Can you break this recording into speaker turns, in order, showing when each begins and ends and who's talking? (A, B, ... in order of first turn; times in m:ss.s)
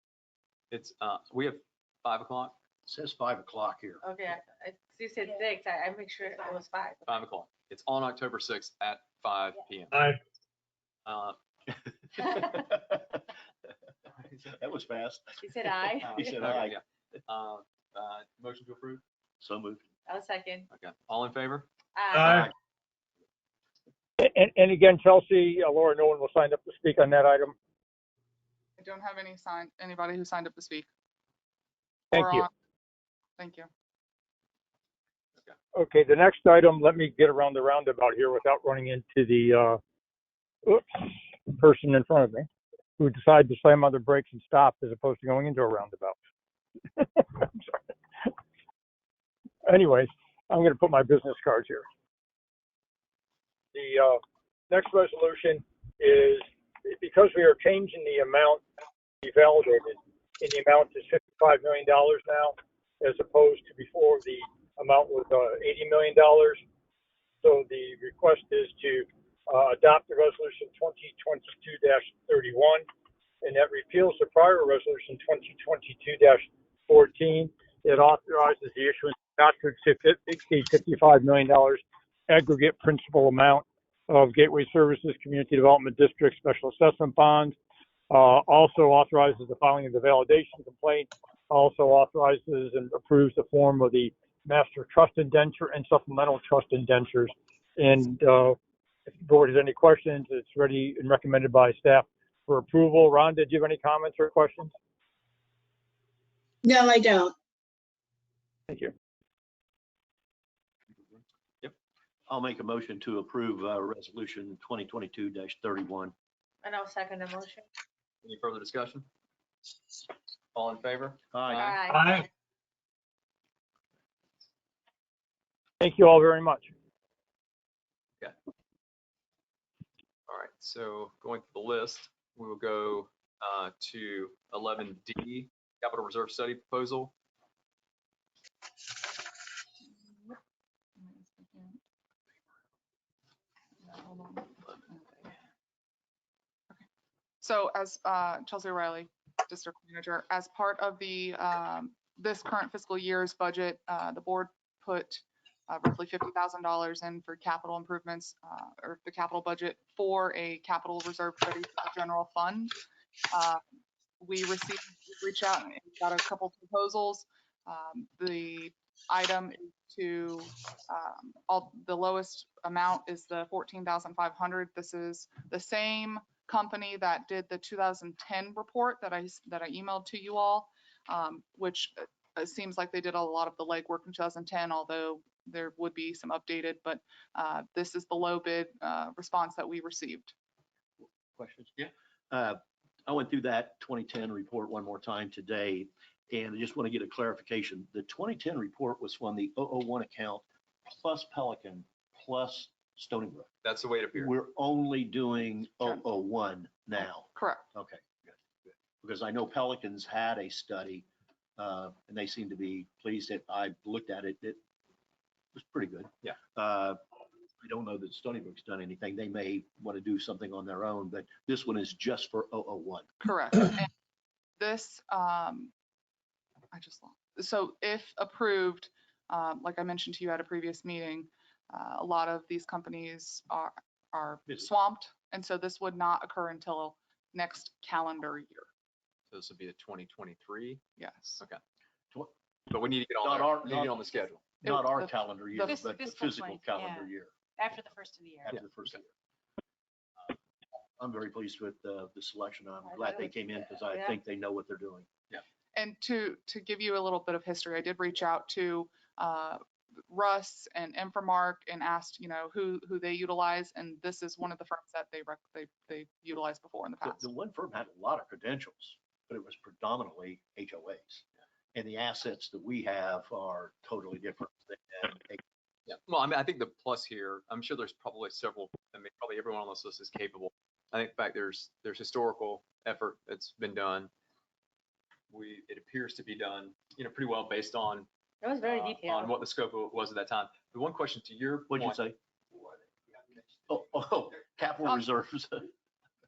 0:00.7-0:02.6 A
0:02.9-0:04.0 B
0:04.0-0:07.1 C
0:07.0-0:10.0 A
0:09.9-0:10.2 D
0:11.0-0:11.4 A
0:12.2-0:13.2 B
0:14.4-0:16.8 B
0:15.4-0:16.2 C
0:16.1-0:19.0 A
0:19.4-0:19.8 B
0:20.1-0:20.7 C
0:20.7-0:21.7 A
0:21.9-0:22.4 C
0:22.1-0:22.5 D
0:24.2-0:27.5 D
0:28.8-0:30.9 E
0:32.1-0:32.5 D
0:32.1-0:32.5 E
0:33.4-0:33.7 E
0:35.7-0:39.8 D
0:40.6-0:46.2 D
0:47.0-0:48.3 D
0:49.6-0:51.8 D
0:53.7-0:58.6 D
0:59.2-1:06.6 D
1:07.4-1:12.8 D
1:13.4-1:27.6 D
1:28.1-1:44.7 D
1:52.3-1:56.1 B
1:56.6-1:57.6 C
1:58.2-1:59.1 A
2:00.5-2:01.6 A
2:01.3-2:01.7 B
2:01.5-2:02.2 C
2:01.9-2:02.2 D
2:05.8-2:06.7 D
2:10.3-2:17.1 A
2:19.9-2:20.4 E
2:21.0-2:21.8 E
2:23.8-2:25.2 E
2:27.4-2:42.7 E
2:43.3-2:43.6 E
2:44.2-3:10.3 E
3:11.0-3:11.8 B
3:12.3-3:23.5 B
3:23.6-3:24.3 A
3:24.1-3:31.0 B
3:27.0-3:27.6 E
3:31.6-3:34.6 B
3:35.5-3:37.0 B
3:37.6-3:43.1 B
3:43.2-3:43.9 E
3:44.6-3:45.7 E
3:46.7-3:58.7 E
3:59.3-4:00.8 A
4:01.0-4:01.4 E
4:02.7-4:04.4 A
4:03.2-4:04.1 B
4:04.6-4:07.3 B
4:04.6-4:05.8 E
4:05.8-4:08.5 F
4:08.5-4:09.1 B
4:11.0-4:15.1 B
4:12.8-4:14.2 C
4:15.7-4:27.3 E
4:27.0-4:31.2 B
4:31.7-4:35.4 B
4:35.9-4:44.1 A
4:45.3-4:48.1 A
4:48.4-4:49.4 C
4:48.6-4:52.0 A
4:51.7-4:52.7 B
4:53.7-4:55.7 B